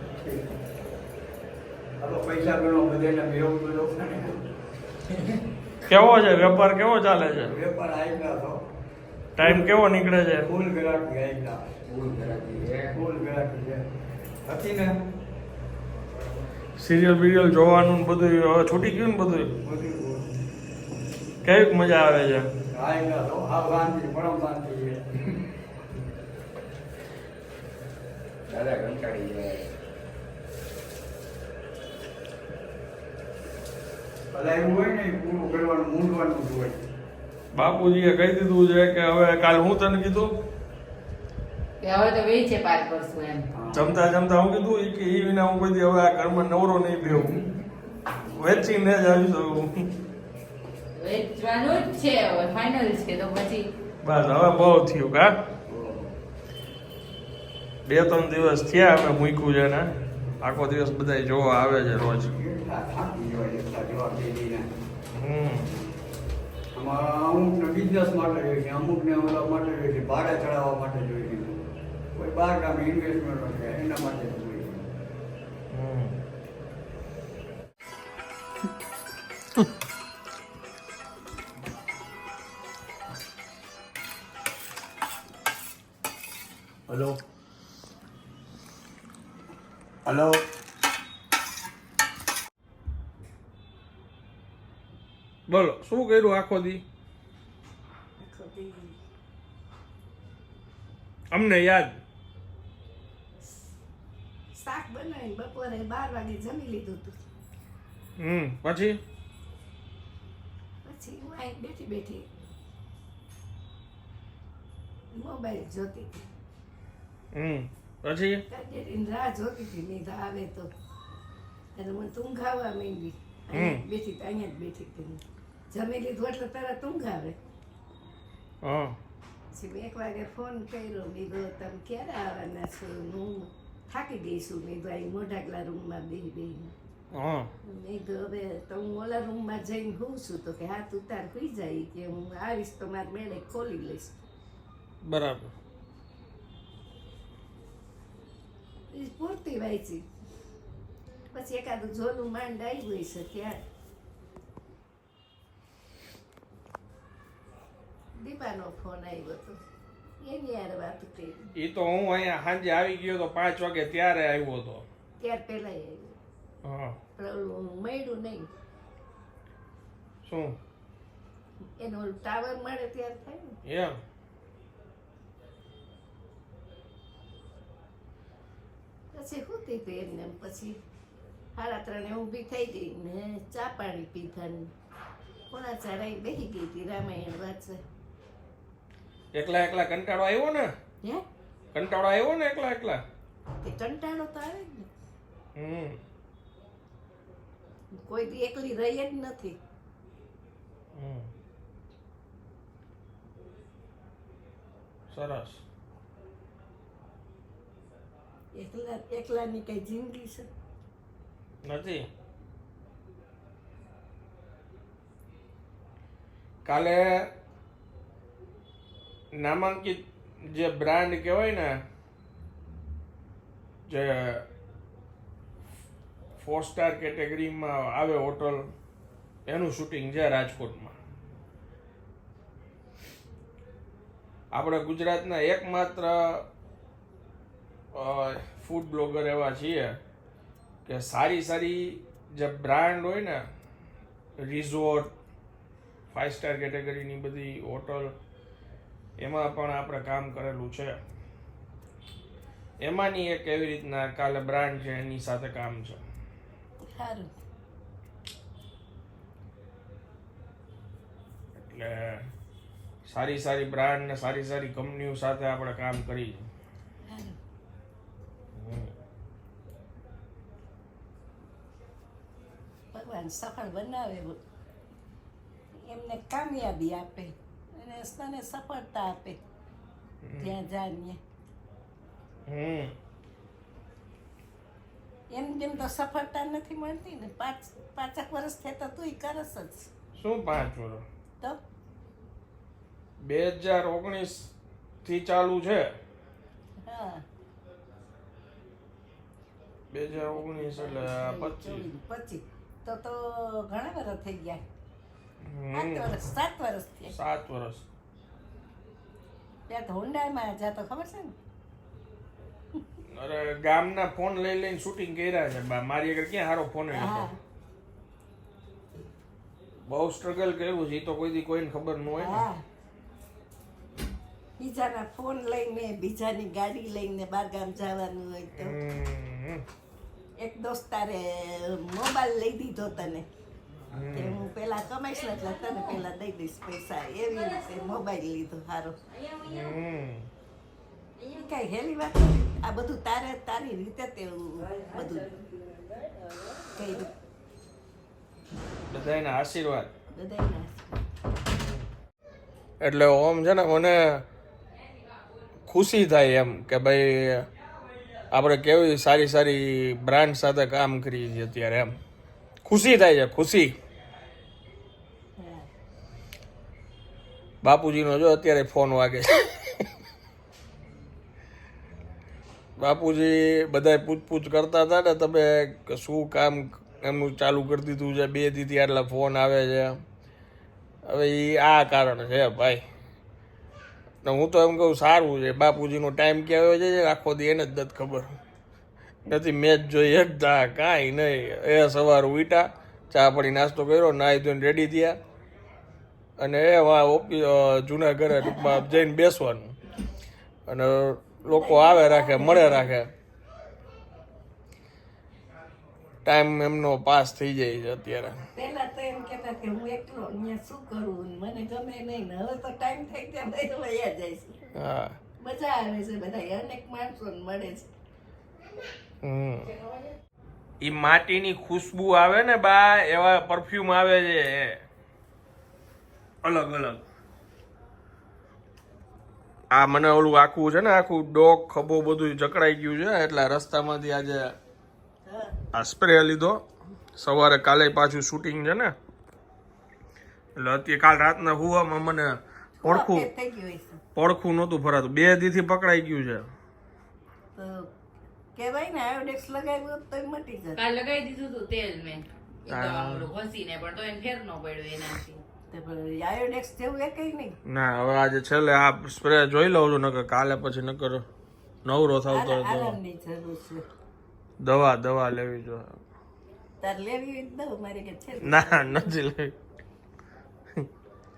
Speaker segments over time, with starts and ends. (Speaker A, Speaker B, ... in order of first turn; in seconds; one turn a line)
Speaker A: 0.2-0.5
Speaker A: 2.0-4.4
Speaker B: 5.8-7.6
Speaker A: 7.4-8.6
Speaker B: 9.3-10.5
Speaker A: 9.4-9.7
Speaker A: 10.4-11.6
Speaker C: 11.9-13.0
Speaker A: 12.9-13.8
Speaker A: 14.4-14.9
Speaker B: 16.8-19.5
Speaker A: 19.6-20.3
Speaker B: 21.4-22.5
Speaker A: 22.7-25.0
Speaker C: 28.5-29.7
Speaker A: 34.3-36.8
Speaker B: 37.5-40.3
Speaker D: 41.8-43.5
Speaker A: 43.5-43.9
Speaker B: 43.7-47.4
Speaker B: 48.3-49.9
Speaker D: 50.9-53.7
Speaker B: 54.0-55.3
Speaker B: 57.9-59.9
Speaker B: 60.4-62.3
Speaker A: 62.2-64.6
Speaker B: 65.1-65.7
Speaker A: 66.7-71.6
Speaker A: 72.1-74.8
Speaker B: 75.7-76.2
Speaker A: 86.9-87.2
Speaker A: 90.0-90.4
Speaker B: 95.5-96.8
Speaker E: 98.2-99.0
Speaker B: 101.3-102.0
Speaker E: 104.5-107.2
Speaker B: 108.2-109.0
Speaker E: 110.8-112.2
Speaker E: 115.1-116.2
Speaker B: 117.3-118.4
Speaker E: 118.5-120.7
Speaker E: 121.7-127.4
Speaker B: 123.5-123.8
Speaker B: 128.6-129.0
Speaker E: 129.5-136.7
Speaker B: 137.1-137.5
Speaker E: 137.7-144.2
Speaker B: 145.0-145.5
Speaker E: 148.9-150.0
Speaker E: 151.3-153.6
Speaker E: 158.2-159.6
Speaker E: 160.2-161.5
Speaker B: 161.6-164.8
Speaker E: 165.2-166.2
Speaker B: 166.6-167.0
Speaker E: 167.2-168.5
Speaker B: 170.2-170.6
Speaker E: 171.8-173.6
Speaker B: 173.6-174.0
Speaker E: 179.1-180.8
Speaker E: 181.6-184.7
Speaker E: 185.5-187.8
Speaker B: 189.3-190.7
Speaker B: 191.7-193.0
Speaker E: 193.6-194.9
Speaker B: 195.6-196.0
Speaker E: 197.9-199.6
Speaker B: 200.9-201.3
Speaker B: 205.1-205.6
Speaker E: 208.6-210.5
Speaker B: 211.6-212.0
Speaker B: 216.6-217.0
Speaker B: 219.4-221.7
Speaker B: 223.9-224.5
Speaker B: 226.4-228.7
Speaker B: 229.5-230.9
Speaker B: 234.5-236.4
Speaker B: 237.9-240.0
Speaker B: 240.8-243.4
Speaker B: 244.4-245.1
Speaker B: 246.1-248.1
Speaker B: 249.2-251.0
Speaker B: 252.8-256.0
Speaker E: 256.9-257.3
Speaker B: 261.6-262.2
Speaker B: 263.1-266.4
Speaker E: 267.1-267.4
Speaker B: 268.6-268.9
Speaker E: 272.9-274.4
Speaker E: 275.9-279.4
Speaker B: 280.2-280.5
Speaker E: 280.4-281.2
Speaker B: 282.5-282.9
Speaker E: 285.3-289.9
Speaker B: 290.1-291.0
Speaker B: 293.2-294.5
Speaker B: 295.0-295.9
Speaker E: 296.8-297.2
Speaker B: 299.9-301.8
Speaker E: 300.5-304.6
Speaker B: 305.4-306.1
Speaker E: 305.7-307.1
Speaker B: 307.1-307.8
Speaker E: 309.7-311.3
Speaker B: 313.1-317.3
Speaker E: 316.9-317.3
Speaker B: 319.9-322.4
Speaker E: 322.2-322.6
Speaker E: 324.6-328.8
Speaker B: 328.6-329.6
Speaker E: 330.4-333.2
Speaker B: 333.9-334.4
Speaker E: 334.1-339.0
Speaker B: 339.4-340.3
Speaker E: 341.2-345.3
Speaker E: 346.7-347.1
Speaker B: 348.9-349.9
Speaker E: 350.1-350.9
Speaker B: 352.8-354.2
Speaker B: 355.7-357.5
Speaker B: 358.3-361.9
Speaker B: 362.6-363.7
Speaker E: 365.4-365.7
Speaker B: 367.6-369.9
Speaker B: 372.8-380.0
Speaker B: 381.1-382.8
Speaker B: 384.2-388.3
Speaker B: 389.3-395.2
Speaker B: 396.4-399.8
Speaker B: 400.7-403.1
Speaker E: 401.4-402.9
Speaker B: 406.2-408.3
Speaker E: 408.5-414.7
Speaker B: 414.7-415.2
Speaker E: 415.4-417.9
Speaker B: 419.2-419.7
Speaker B: 420.8-424.8
Speaker B: 426.4-427.0
Speaker B: 429.7-434.6
Speaker E: 435.3-435.6
Speaker B: 435.7-436.6
Speaker B: 437.2-438.9
Speaker B: 440.6-443.3
Speaker E: 442.8-444.0
Speaker B: 444.1-446.5
Speaker E: 447.5-447.9
Speaker E: 448.6-450.8
Speaker D: 450.8-455.4
Speaker B: 452.7-453.3
Speaker E: 455.7-457.6
Speaker B: 457.6-461.2
Speaker B: 461.8-463.0
Speaker E: 462.3-463.8
Speaker B: 464.6-466.0
Speaker E: 466.8-469.1
Speaker B: 468.4-469.5